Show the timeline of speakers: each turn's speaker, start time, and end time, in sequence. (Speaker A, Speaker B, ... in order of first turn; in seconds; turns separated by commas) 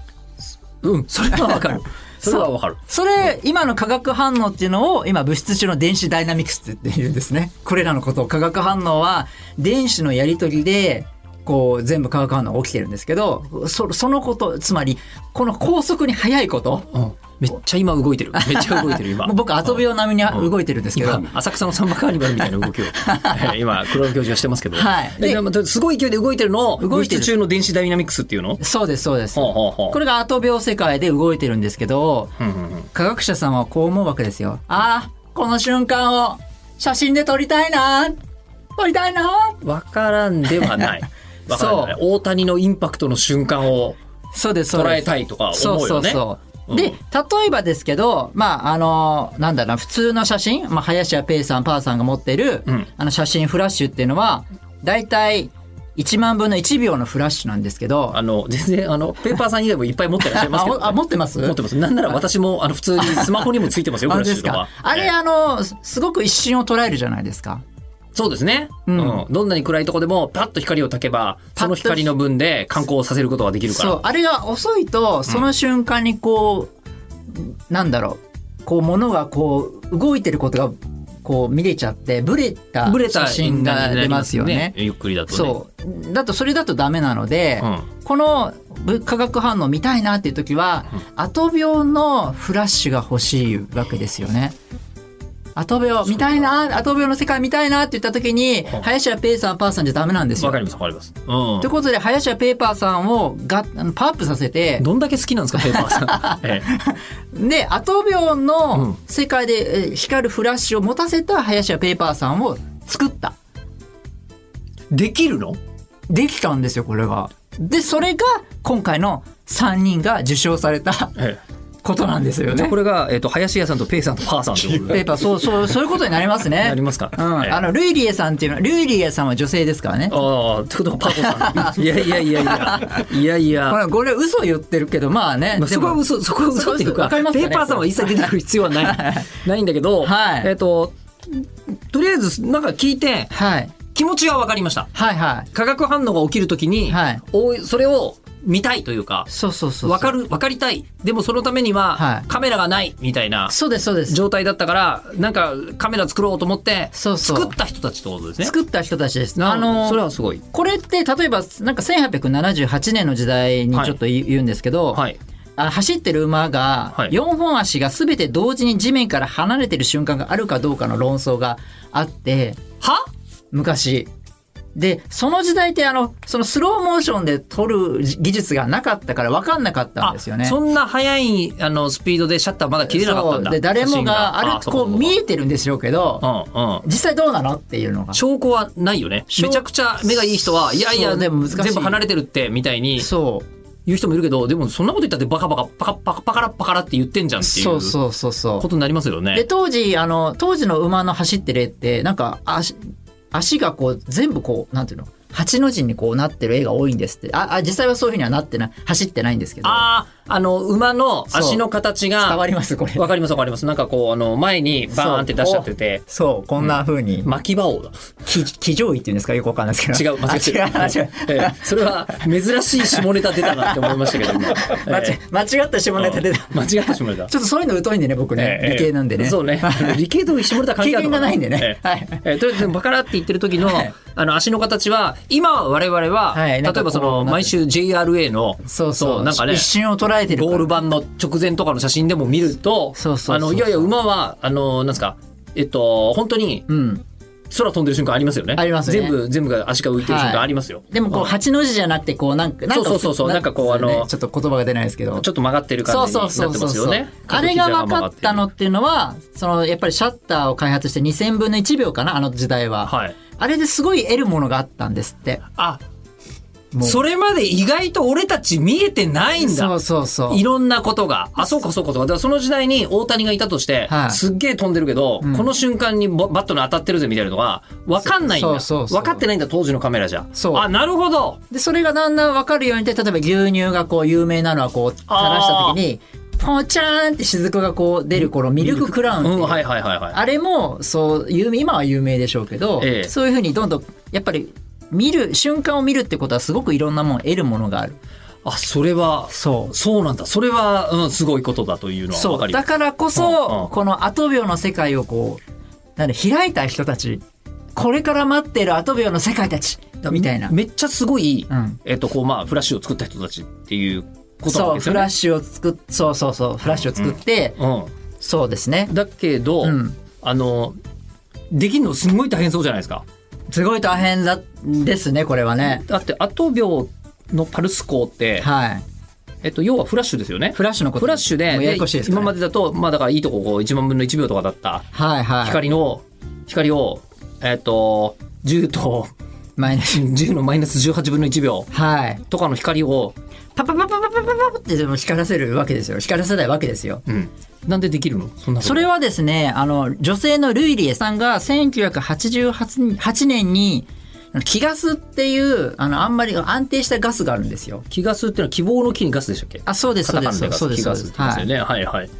Speaker A: 0.8-2.8, Speaker B: 2.2-16.9, Speaker A: 16.9-28.6, Speaker B: 18.3-21.3, Speaker B: 22.9-23.6, Speaker B: 24.7-25.4, Speaker B: 26.8-27.3, Speaker B: 28.6-32.3, Speaker A: 29.3-30.0, Speaker A: 32.4-32.9, Speaker B: 32.9-38.1, Speaker B: 38.8-39.6, Speaker A: 39.6-44.0, Speaker B: 41.5-42.0, Speaker B: 44.3-58.2, Speaker A: 44.7-47.0, Speaker A: 58.1-65.1, Speaker B: 60.2-61.6, Speaker B: 63.0-67.6, Speaker A: 68.1-74.0, Speaker B: 68.9-69.2, Speaker B: 71.6-72.1, Speaker B: 73.7-76.7, Speaker B: 77.3-84.8, Speaker A: 82.8-85.6, Speaker B: 85.3-94.5, Speaker B: 95.5-100.6, Speaker A: 100.4-101.7, Speaker B: 101.6-104.8, Speaker A: 104.8-106.7, Speaker B: 105.6-113.3, Speaker A: 114.9-115.6, Speaker B: 116.1-121.1, Speaker B: 121.8-122.8, Speaker A: 122.5-125.1, Speaker B: 124.7-130.2, Speaker A: 126.6-127.6, Speaker A: 130.1-133.8, Speaker B: 131.1-133.1, Speaker B: 133.6-139.2, Speaker A: 135.6-143.3, Speaker B: 140.0-140.5, Speaker B: 143.3-143.7, Speaker A: 143.9-144.9, Speaker B: 144.9-145.5, Speaker A: 145.5-149.3, Speaker B: 146.9-147.2, Speaker B: 149.3-150.2, Speaker A: 149.8-158.5, Speaker B: 151.9-152.2, Speaker B: 153.5-154.2, Speaker B: 156.9-157.6, Speaker B: 158.4-165.0, Speaker A: 159.3-160.4, Speaker A: 164.9-165.2, Speaker B: 165.6-172.6, Speaker B: 173.5-174.1, Speaker B: 174.8-180.6, Speaker A: 180.0-185.2, Speaker B: 182.8-186.2, Speaker A: 186.2-186.8, Speaker B: 186.8-188.2, Speaker A: 188.1-193.1, Speaker B: 189.3-189.6, Speaker B: 190.2-192.0, Speaker B: 193.0-193.4, Speaker A: 193.8-197.9, Speaker B: 197.4-198.7, Speaker A: 198.6-199.4, Speaker B: 199.3-202.8, Speaker B: 203.3-209.9, Speaker A: 209.6-212.4, Speaker B: 211.3-211.7, Speaker B: 212.2-213.1, Speaker A: 212.9-216.0, Speaker B: 214.9-217.3, Speaker A: 216.6-217.9, Speaker B: 218.2-222.2, Speaker A: 219.9-225.2, Speaker B: 222.7-230.0, Speaker A: 225.9-227.3, Speaker A: 228.3-239.7, Speaker B: 230.6-232.3, Speaker B: 233.6-233.9, Speaker B: 236.3-237.5, Speaker B: 238.7-240.8, Speaker A: 240.3-246.7, Speaker B: 242.9-243.9, Speaker B: 246.7-247.0, Speaker A: 247.5-251.3, Speaker B: 248.6-249.2, Speaker B: 250.0-255.3, Speaker A: 252.7-254.1, Speaker A: 255.2-258.4, Speaker B: 255.8-265.4, Speaker A: 262.8-263.1, Speaker A: 265.6-265.8, Speaker B: 266.7-267.0, Speaker A: 266.8-269.8, Speaker B: 269.4-270.4, Speaker A: 270.3-281.4, Speaker B: 273.9-274.2, Speaker B: 275.2-275.5, Speaker B: 278.0-279.2, Speaker B: 280.3-280.6, Speaker B: 281.5-298.0, Speaker A: 285.1-285.8, Speaker A: 288.2-290.2, Speaker A: 292.8-293.1, Speaker A: 298.4-303.7, Speaker B: 299.3-299.7, Speaker B: 302.1-305.4, Speaker B: 306.0-307.2, Speaker B: 307.8-310.5, Speaker A: 310.0-315.1, Speaker B: 311.5-311.8, Speaker B: 314.4-317.6, Speaker A: 316.7-317.9, Speaker B: 318.2-318.9, Speaker A: 318.9-320.8, Speaker B: 319.6-319.9, Speaker A: 321.5-323.0, Speaker B: 323.5-325.8, Speaker A: 325.7-328.5, Speaker B: 328.4-328.8, Speaker A: 329.4-334.9, Speaker B: 330.5-332.3, Speaker B: 334.9-335.6, Speaker A: 335.4-339.1, Speaker B: 339.6-340.1, Speaker A: 339.8-341.7, Speaker B: 341.7-342.2, Speaker A: 342.3-343.1, Speaker B: 343.6-347.0, Speaker A: 347.1-348.9, Speaker B: 348.6-357.8, Speaker A: 357.9-362.1, Speaker B: 359.6-361.5